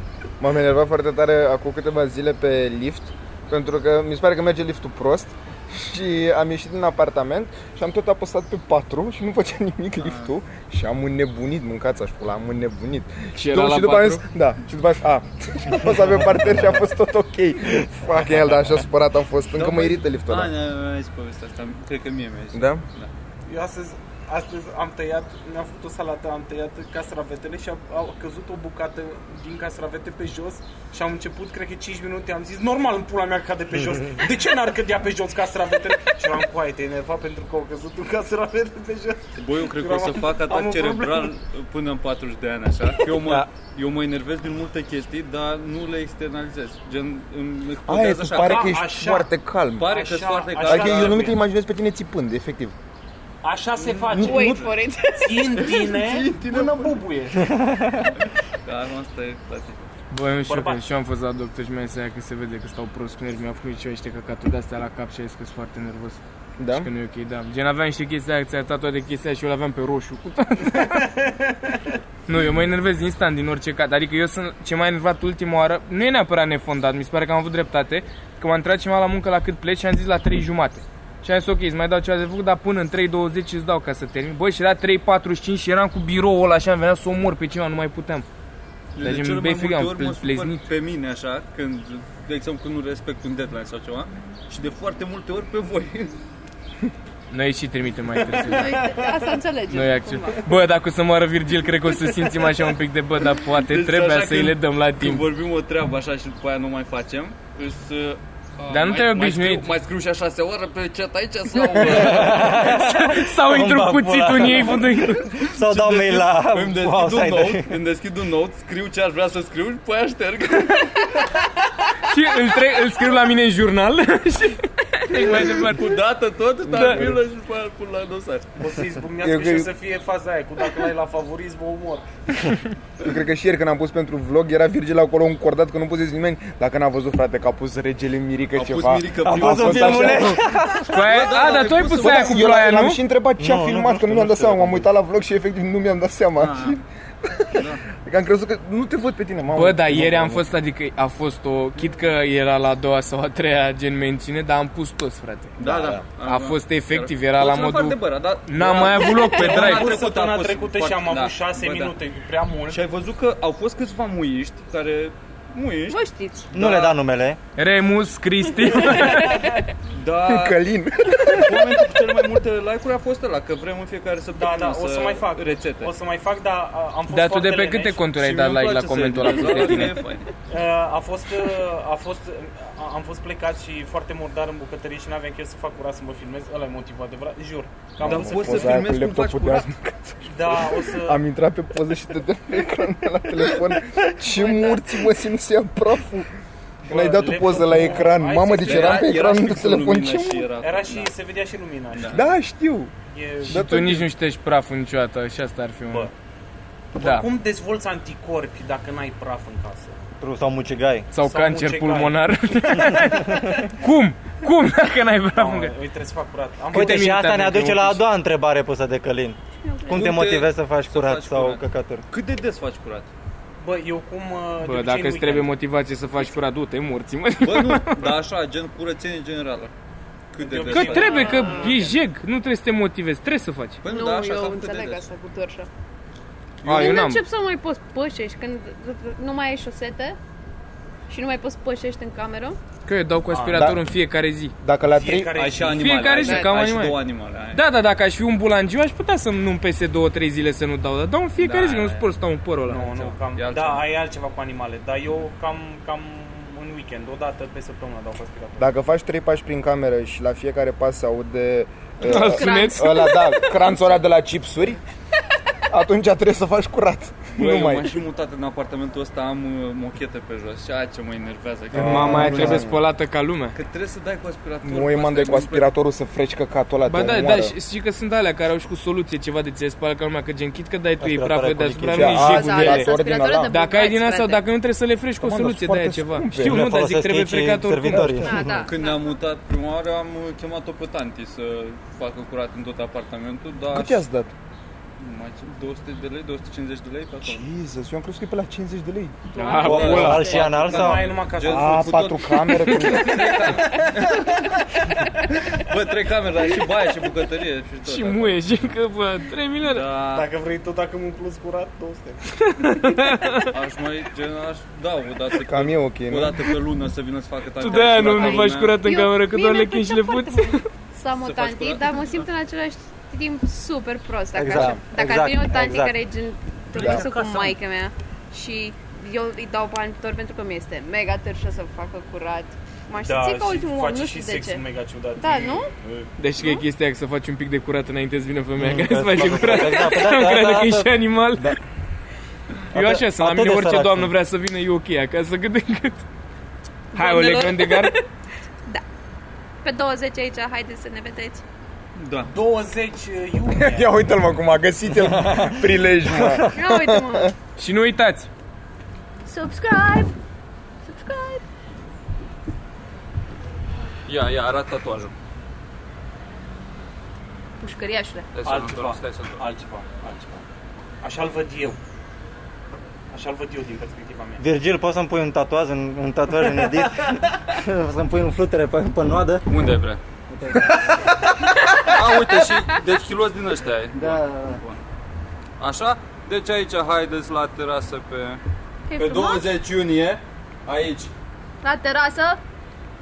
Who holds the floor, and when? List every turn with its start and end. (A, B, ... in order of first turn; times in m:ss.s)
0:00.4-0:20.6 A
0:10.0-0:10.3 B
0:13.4-0:14.2 C
0:19.6-0:23.1 B
0:22.5-0:22.8 A
0:23.5-0:41.3 D
0:33.9-0:34.1 E
0:39.4-0:48.8 B
0:47.9-0:49.9 A
0:48.3-0:49.3 D
0:49.8-0:51.4 B
0:49.8-0:51.4 D
0:50.6-0:52.8 A
0:53.4-0:57.5 D
0:53.8-0:54.8 B
0:54.1-0:55.6 F
0:55.6-0:57.0 B
0:57.3-0:58.1 E
0:58.1-0:59.8 B
1:00.1-1:06.2 C
1:00.4-1:00.8 D
1:06.6-1:06.9 A
1:06.7-1:11.2 C
1:11.2-1:11.8 D
1:12.3-1:28.2 C
1:28.9-1:36.2 B
1:29.0-1:30.7 C
1:37.3-1:38.7 C
1:38.2-1:39.4 D
1:38.4-1:40.4 F
1:39.7-1:45.2 C
1:42.3-1:42.7 D
1:43.5-1:52.8 B
1:48.7-1:49.7 C
1:51.8-1:57.7 E
1:52.4-1:55.4 C
1:55.5-2:01.2 B
2:02.0-2:06.0 C
2:05.1-2:08.5 B
2:06.6-2:07.2 A
2:06.7-2:07.0 C
2:08.6-2:12.1 D
2:09.2-2:09.7 A
2:13.0-2:20.4 A
2:18.5-2:22.7 B
2:19.2-2:20.9 E
2:20.2-2:23.0 C
2:21.8-2:30.4 A
2:23.4-2:24.9 E
2:26.4-2:26.8 B
2:27.5-2:27.8 B
2:29.5-2:35.6 C
2:35.6-2:41.9 B
2:35.6-2:36.0 A
2:36.2-2:39.9 C
2:39.0-2:42.8 D
2:42.7-2:46.0 B
2:45.9-2:46.5 F
2:46.5-2:47.0 B
2:46.5-2:47.4 E
2:47.6-2:49.5 C
2:49.2-2:49.6 D
2:49.9-2:55.9 B
2:50.2-2:51.8 A
2:54.3-2:58.0 D
2:57.1-3:00.0 C
2:58.1-3:00.3 B
3:00.5-3:08.8 D
3:08.0-3:16.3 A
3:08.0-3:09.7 B
3:10.2-3:11.2 D
3:14.4-3:14.8 D
3:16.8-3:19.3 D
3:16.9-3:20.5 A
3:18.6-3:21.1 B
3:20.6-3:22.3 D
3:21.9-3:22.2 B
3:22.1-3:22.9 A
3:23.1-3:23.6 D
3:23.4-3:26.1 C
3:23.5-3:24.1 A
3:27.0-3:30.0 D
3:27.0-3:27.3 C
3:30.2-3:31.1 E
3:31.1-3:35.7 C
3:31.2-3:32.2 D
3:32.7-3:33.6 E
3:35.3-3:37.2 D
3:36.7-3:42.0 E
3:36.7-3:38.0 C
3:39.6-3:40.2 F
3:39.9-3:43.1 B
3:43.6-3:45.5 D
3:44.6-3:48.2 C
3:47.4-3:49.7 B
3:50.3-3:51.7 B
3:50.3-3:52.0 D
3:50.7-3:53.8 C
3:51.0-3:51.8 F
3:53.8-3:55.0 B
3:53.8-3:55.7 F
3:56.6-3:57.0 B
3:56.6-3:57.2 C
3:56.7-4:00.2 F
4:01.1-4:02.6 F
4:02.8-4:04.5 C
4:03.3-4:03.7 D
4:03.5-4:03.8 A
4:04.6-4:05.4 A
4:04.9-4:05.9 D
4:05.3-4:07.6 B
4:05.7-4:07.0 C
4:06.1-4:06.5 F
4:07.5-4:13.1 C
4:11.4-4:12.2 B
4:12.6-4:18.7 D
4:13.2-4:13.8 B
4:18.6-4:24.8 A
4:22.0-4:23.1 C
4:22.0-4:23.6 F
4:25.7-4:28.0 A
4:27.3-4:32.6 B
4:31.7-4:32.8 A
4:31.7-4:33.6 C
4:33.5-4:35.7 B
4:34.6-4:37.6 A
4:36.9-4:43.0 C
4:41.0-4:42.4 E
4:41.9-4:43.5 A
4:42.2-4:44.4 F
4:43.5-4:48.2 C
4:45.2-4:46.7 A
4:46.4-4:48.5 E
4:47.9-4:48.7 A
4:48.2-4:49.1 F
4:48.6-4:54.0 B
4:53.7-4:54.3 A
4:55.0-4:57.4 B
4:57.2-4:59.2 A
4:59.3-5:00.5 F
4:59.4-5:00.4 C
4:59.5-5:04.7 B
4:59.5-5:01.0 E
4:59.8-5:02.1 D
5:01.5-5:03.5 A
5:02.3-5:03.6 C
5:05.3-5:08.4 B
5:07.8-5:09.8 C
5:09.6-5:10.3 B
5:10.1-5:12.3 D
5:12.4-5:13.5 C
5:13.3-5:18.8 B
5:15.3-5:16.5 A
5:17.6-5:20.7 C
5:17.6-5:34.6 F
5:21.2-5:22.2 B
5:24.3-5:26.0 E
5:26.7-5:27.6 B
5:26.8-5:27.0 A
5:33.0-5:36.1 D
5:35.2-5:35.7 F
5:36.2-5:41.6 C
5:36.4-5:36.6 F
5:38.6-5:40.9 E
5:42.7-5:44.1 E
5:42.7-5:46.0 C
5:46.9-5:48.0 F
5:46.9-5:47.9 C
5:49.6-5:51.4 F
5:52.0-5:52.3 B
5:52.3-5:53.9 D
5:53.6-5:57.3 A
5:56.5-5:57.3 F
5:57.6-5:58.3 C
5:59.2-6:00.1 F
6:00.8-6:01.4 F
6:04.0-6:05.1 B
6:07.6-6:08.3 F
6:08.3-6:09.4 B
6:08.4-6:10.4 D
6:11.0-6:11.8 D
6:13.1-6:14.4 D
6:14.4-6:19.4 E
6:19.5-6:20.0 B
6:20.3-6:20.8 E
6:21.5-6:22.8 F
6:21.7-6:24.8 B
6:24.0-6:24.6 E
6:25.6-6:28.4 B
6:28.9-6:29.5 F
6:29.0-6:31.1 B
6:31.6-6:32.4 F